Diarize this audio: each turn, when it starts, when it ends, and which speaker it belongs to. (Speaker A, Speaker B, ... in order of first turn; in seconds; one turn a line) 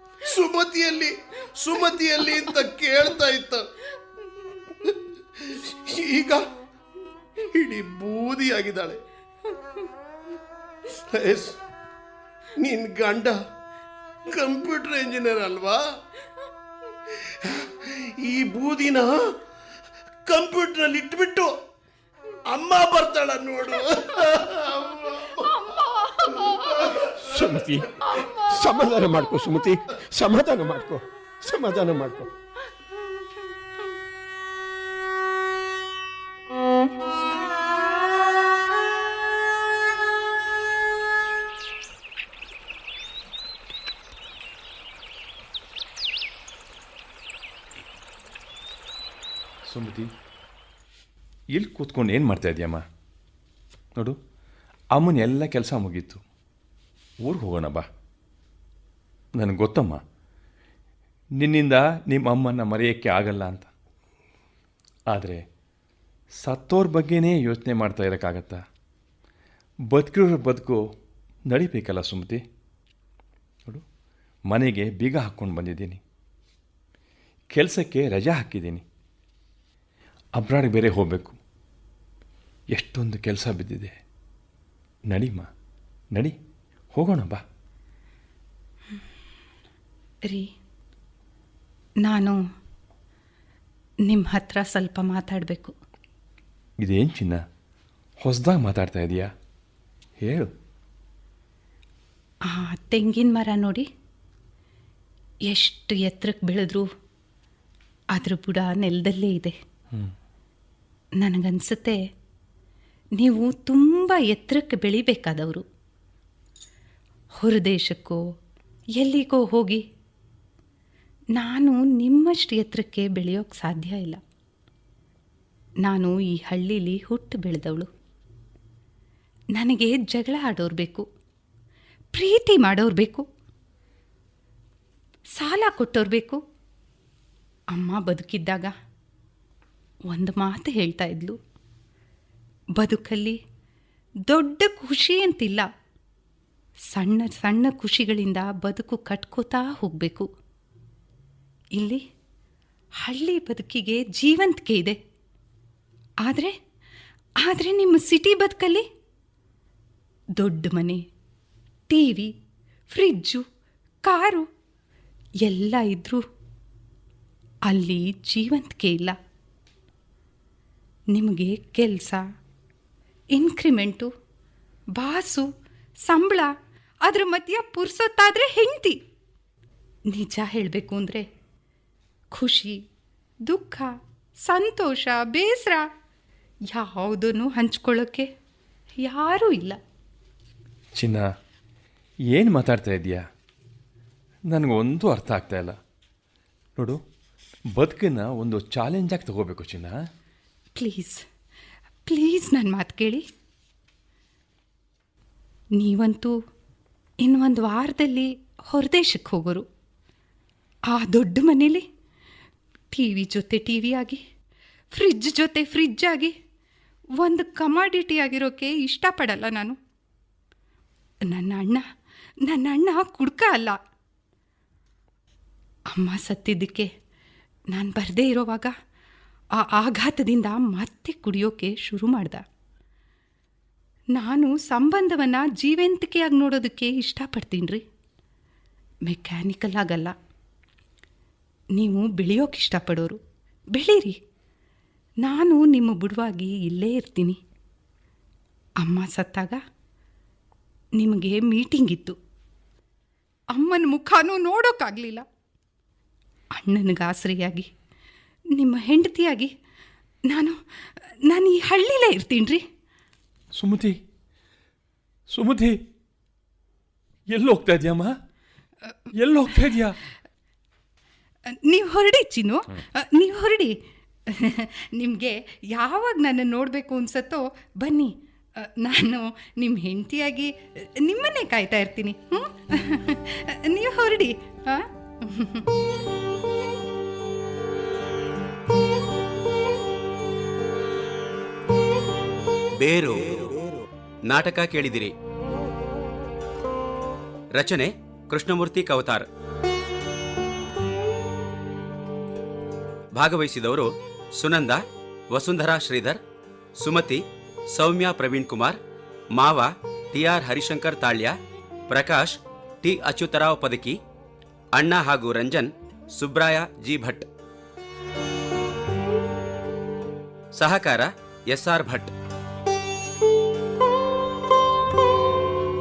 Speaker A: 0.2-3.7
Speaker A: 4.8-6.5
Speaker A: 7.4-9.0
Speaker A: 11.1-11.6
Speaker A: 12.6-13.4
Speaker A: 14.3-15.8
Speaker A: 17.1-19.2
Speaker A: 20.2-21.5
Speaker A: 22.5-25.6
Speaker B: 23.9-24.4
Speaker B: 25.3-27.0
Speaker A: 26.5-27.1
Speaker C: 27.0-32.3
Speaker B: 28.0-29.2
Speaker D: 49.7-50.1
Speaker D: 51.5-52.9
Speaker D: 54.9-56.2
Speaker D: 57.2-57.9
Speaker D: 59.4-60.0
Speaker D: 61.4-63.7
Speaker D: 65.1-65.4
Speaker D: 66.4-68.6
Speaker D: 69.9-70.8
Speaker D: 71.5-72.4
Speaker D: 74.5-76.0
Speaker D: 77.5-78.8
Speaker D: 80.4-81.4
Speaker D: 82.7-84.0
Speaker D: 85.1-85.5
Speaker D: 86.9-87.4
Speaker B: 92.0-92.4
Speaker B: 94.1-95.7
Speaker D: 96.8-97.4
Speaker D: 98.2-99.3
Speaker D: 100.2-100.5
Speaker B: 102.5-103.9
Speaker B: 105.5-106.9
Speaker B: 108.2-109.6
Speaker B: 111.2-112.0
Speaker B: 113.2-115.7
Speaker B: 117.4-118.2
Speaker B: 119.0-119.8
Speaker B: 121.3-124.2
Speaker B: 125.8-127.9
Speaker B: 129.6-131.1
Speaker B: 132.1-133.2
Speaker B: 135.4-136.4
Speaker B: 137.7-138.7
Speaker B: 140.1-141.4
Speaker B: 142.8-143.4
Speaker B: 144.3-145.7
Speaker B: 146.9-150.3
Speaker B: 151.8-152.0
Speaker B: 153.0-155.0
Speaker B: 156.2-156.6
Speaker B: 157.4-158.8
Speaker B: 160.4-161.0
Speaker B: 161.9-162.3
Speaker B: 162.9-163.4
Speaker B: 164.0-164.5
Speaker B: 165.4-166.2
Speaker B: 167.7-169.2
Speaker B: 171.1-172.2
Speaker B: 173.3-174.1
Speaker B: 174.9-175.5
Speaker B: 176.1-176.5
Speaker B: 177.1-179.0
Speaker B: 180.1-181.3
Speaker B: 182.3-182.8
Speaker B: 183.4-185.9
Speaker B: 186.7-188.3
Speaker B: 189.0-189.8
Speaker D: 191.0-191.3
Speaker D: 192.3-193.2
Speaker D: 194.5-195.8
Speaker D: 197.7-200.0
Speaker B: 200.8-201.2
Speaker B: 202.1-203.2
Speaker B: 205.8-206.4
Speaker B: 207.2-209.7
Speaker B: 210.9-211.9
Speaker B: 212.9-214.2
Speaker B: 214.9-216.3
Speaker B: 217.2-219.8
Speaker B: 221.3-221.8
Speaker B: 222.4-223.8
Speaker B: 225.9-226.9
Speaker B: 227.7-228.7
Speaker B: 229.6-232.4
Speaker B: 234.2-237.8
Speaker B: 239.1-240.2
Speaker B: 241.8-243.2
Speaker B: 243.7-244.2
Speaker B: 245.2-247.4
Speaker B: 248.8-249.6
Speaker B: 251.0-252.2
Speaker B: 253.5-255.2
Speaker B: 256.6-257.7
Speaker B: 258.5-259.5
Speaker B: 260.3-262.6
Speaker D: 263.6-264.0
Speaker D: 265.3-265.8
Speaker D: 267.3-268.1
Speaker D: 269.2-270.0
Speaker B: 269.5-269.8
Speaker B: 271.5-285.7
Speaker E: 292.8-293.6
Speaker E: 294.3-295.1
Speaker E: 297.5-299.3
Speaker E: 303.1-306.2
Speaker E: 306.8-308.8
Speaker E: 309.3-311.4
Speaker E: 311.9-314.0
Speaker E: 314.7-317.3
Speaker E: 320.6-322.1